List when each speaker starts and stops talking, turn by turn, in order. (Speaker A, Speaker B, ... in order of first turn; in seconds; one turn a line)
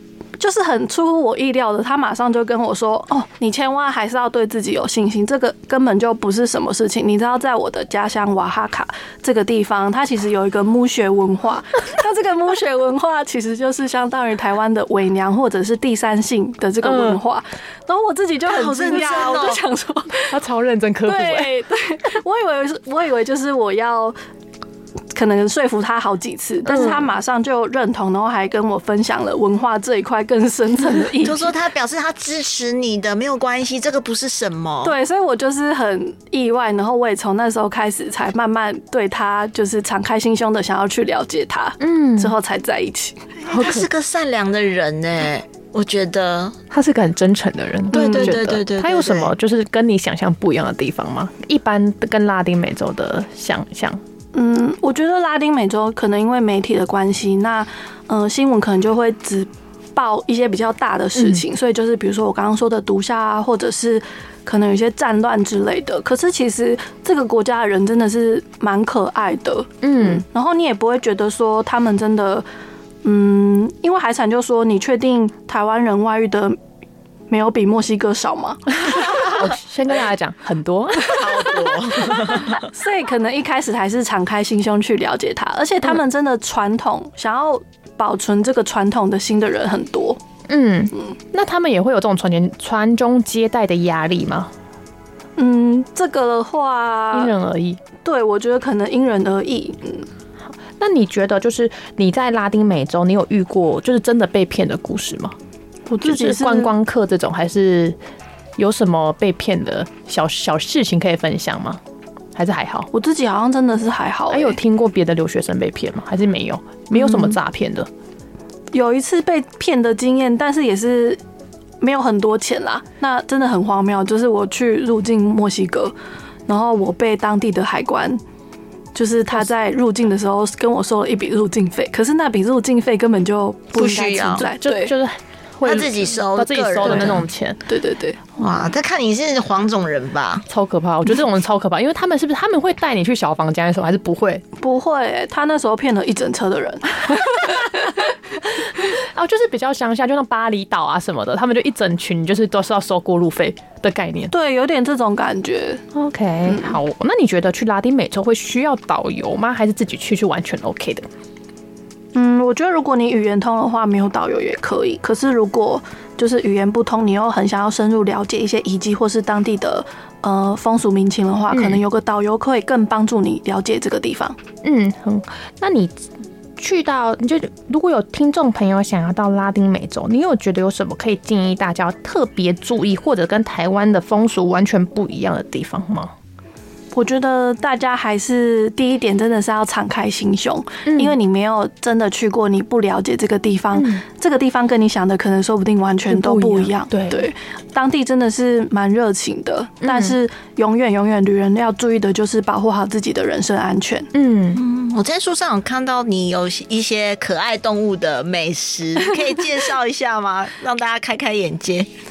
Speaker A: 0.4-20.4
Speaker B: 16.8-17.2
Speaker C: 18.5-19.6
Speaker B: 20.3-21.5
Speaker A: 21.1-24.2
Speaker A: 25.1-31.5
Speaker B: 26.7-27.0
Speaker C: 31.2-35.0
Speaker A: 34.8-43.2
Speaker B: 41.8-42.4
Speaker C: 43.4-46.6
Speaker B: 43.5-43.9
Speaker B: 46.7-54.0
Speaker A: 47.9-48.4
Speaker C: 47.9-49.3
Speaker A: 54.3-72.5
Speaker B: 61.2-61.4
Speaker B: 69.8-70.2
Speaker A: 73.0-76.6
Speaker A: 77.3-79.3
Speaker B: 78.9-82.6
Speaker C: 81.0-82.7
Speaker A: 82.3-90.2
Speaker B: 90.5-94.5
Speaker A: 95.4-97.3
Speaker B: 97.1-97.8
Speaker A: 98.0-100.1
Speaker B: 100.8-105.3
Speaker A: 105.9-106.7
Speaker B: 106.0-108.0
Speaker B: 108.6-111.8
Speaker B: 112.3-112.9
Speaker A: 112.9-114.6
Speaker B: 114.3-117.9
Speaker A: 116.9-117.3
Speaker A: 118.7-121.2
Speaker A: 121.8-125.9
Speaker A: 126.5-128.2
Speaker A: 128.9-134.9
Speaker C: 133.8-134.5
Speaker B: 134.4-137.6
Speaker C: 135.6-137.2
Speaker A: 136.8-138.2
Speaker C: 138.4-140.5
Speaker B: 140.5-144.4
Speaker A: 144.6-147.9
Speaker B: 148.4-154.3
Speaker A: 154.3-155.8
Speaker B: 155.9-161.1
Speaker A: 156.5-156.8
Speaker A: 162.1-174.4
Speaker B: 171.5-171.8
Speaker B: 174.6-176.0
Speaker B: 176.6-186.1
Speaker A: 186.9-204.1
Speaker B: 190.9-191.2
Speaker B: 193.7-194.0
Speaker B: 196.1-197.2
Speaker B: 199.8-200.2
Speaker B: 204.1-204.6
Speaker C: 204.5-211.9